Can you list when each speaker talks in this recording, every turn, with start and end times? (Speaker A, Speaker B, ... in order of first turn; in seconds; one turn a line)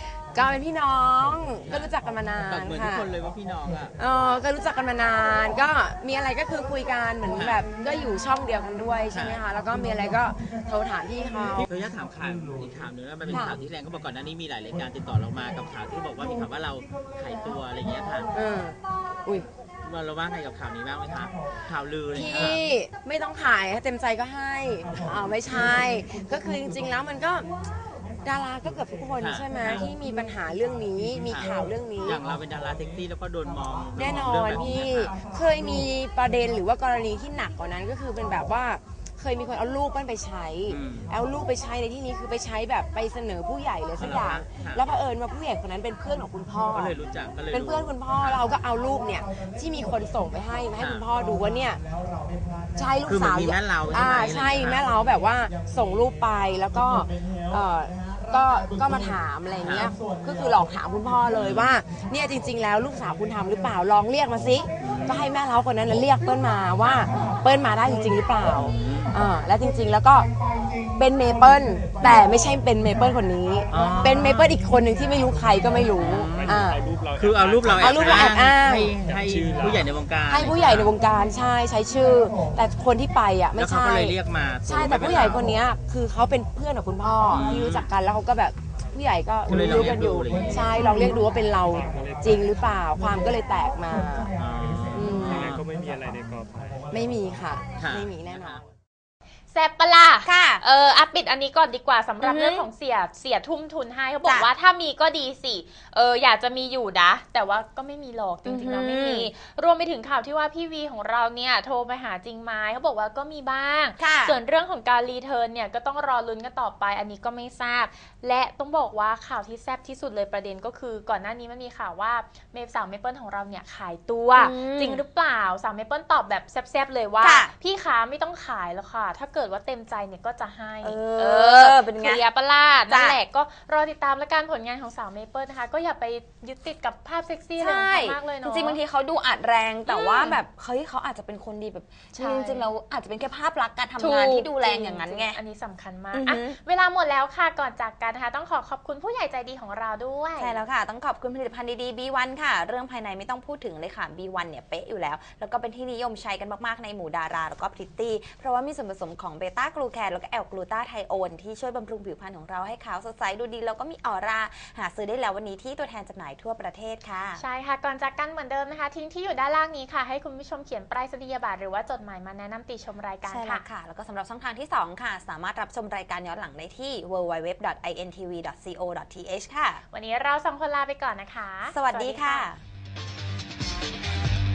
Speaker A: 0.2-3.1
Speaker B: 1.6-1.9
Speaker B: 2.5-3.9
Speaker A: 4.0-11.7
Speaker B: 7.3-7.6
Speaker B: 9.1-9.4
Speaker B: 11.6-18.3
Speaker A: 13.3-13.6
Speaker A: 18.3-19.4
Speaker B: 19.8-22.6
Speaker A: 22.1-27.5
Speaker A: 28.2-32.2
Speaker B: 29.2-29.8
Speaker B: 31.2-31.5
Speaker B: 32.0-35.1
Speaker A: 34.0-46.9
Speaker B: 40.7-41.1
Speaker B: 44.0-44.8
Speaker B: 46.7-48.4
Speaker A: 47.5-51.8
Speaker B: 50.8-51.0
Speaker A: 52.8-70.3
Speaker B: 53.0-54.8
Speaker B: 59.6-59.9
Speaker B: 61.3-61.7
Speaker B: 64.8-65.2
Speaker B: 66.8-67.1
Speaker B: 68.5-69.1
Speaker A: 71.0-76.8
Speaker B: 73.7-74.5
Speaker B: 76.0-76.5
Speaker C: 76.2-78.3
Speaker B: 77.1-80.9
Speaker A: 77.8-78.9
Speaker C: 79.0-79.9
Speaker A: 80.3-94.3
Speaker B: 83.6-85.4
Speaker B: 87.3-87.9
Speaker B: 89.5-90.7
Speaker C: 91.7-92.4
Speaker B: 94.3-95.6
Speaker A: 94.9-95.4
Speaker C: 95.3-96.8
Speaker A: 96.9-98.6
Speaker B: 97.8-98.6
Speaker D: 99.5-138.8
Speaker E: 100.2-100.6
Speaker E: 102.2-102.7
Speaker E: 108.5-109.3
Speaker E: 114.0-114.4
Speaker E: 124.3-125.0
Speaker E: 127.2-127.5
Speaker E: 130.8-132.2
Speaker E: 132.9-133.2
Speaker E: 137.6-145.4
Speaker D: 139.9-140.4
Speaker D: 142.1-142.7
Speaker D: 144.0-150.6
Speaker E: 146.1-146.6
Speaker E: 150.4-167.4
Speaker D: 167.3-173.6
Speaker E: 173.3-179.8
Speaker D: 179.9-182.5
Speaker E: 181.7-182.6